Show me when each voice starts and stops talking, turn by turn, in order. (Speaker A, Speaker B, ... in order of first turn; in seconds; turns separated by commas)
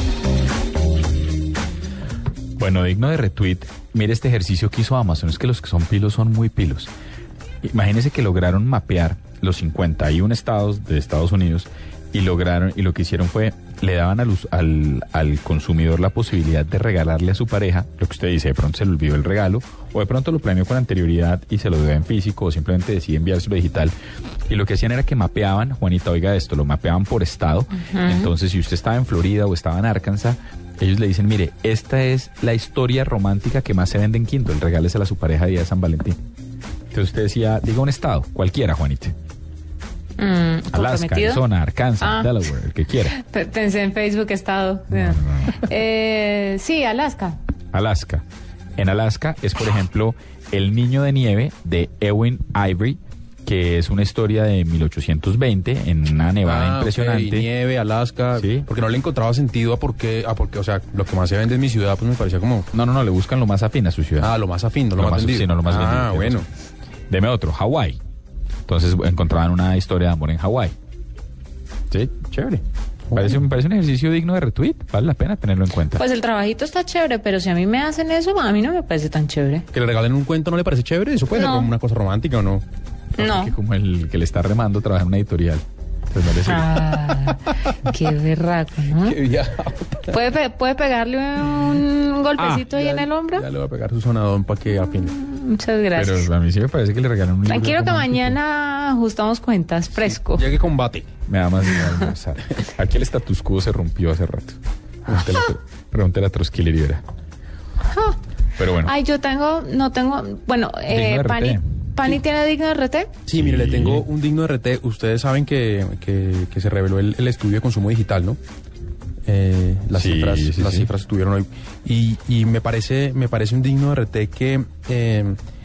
Speaker A: 2.6-6.9, Speaker A: 7.6-23.9, Speaker A: 24.5-36.2, Speaker B: 27.7-28.3, Speaker A: 36.9-39.1, Speaker B: 40.2-41.4, Speaker A: 40.7-43.2, Speaker B: 42.0-42.4, Speaker B: 43.1-47.4, Speaker A: 44.9-45.6, Speaker A: 47.7-48.2, Speaker A: 48.8-57.5, Speaker C: 56.4-62.7, Speaker A: 58.4-58.7, Speaker A: 62.7-64.3, Speaker C: 64.2-66.5, Speaker A: 65.0-66.4, Speaker A: 67.1-68.0, Speaker A: 68.7-70.8, Speaker A: 71.9-72.6, Speaker C: 73.1-73.4, Speaker A: 73.1-76.0, Speaker B: 75.9-79.7, Speaker C: 79.7-82.6, Speaker B: 81.3-81.7, Speaker B: 83.2-83.6, Speaker A: 83.2-86.7, Speaker B: 86.4-89.2, Speaker C: 89.0-90.2, Speaker B: 90.1-93.5, Speaker C: 92.5-95.2, Speaker B: 95.0-96.3, Speaker A: 95.9-98.4, Speaker B: 97.5-100.5, Speaker C: 100.0-101.1, Speaker A: 101.3-107.0, Speaker A: 108.6-108.9, Speaker B: 108.8-113.1, Speaker A: 110.9-111.6, Speaker C: 113.2-118.4, Speaker A: 113.3-114.1, Speaker C: 119.3-125.4, Speaker A: 119.9-120.9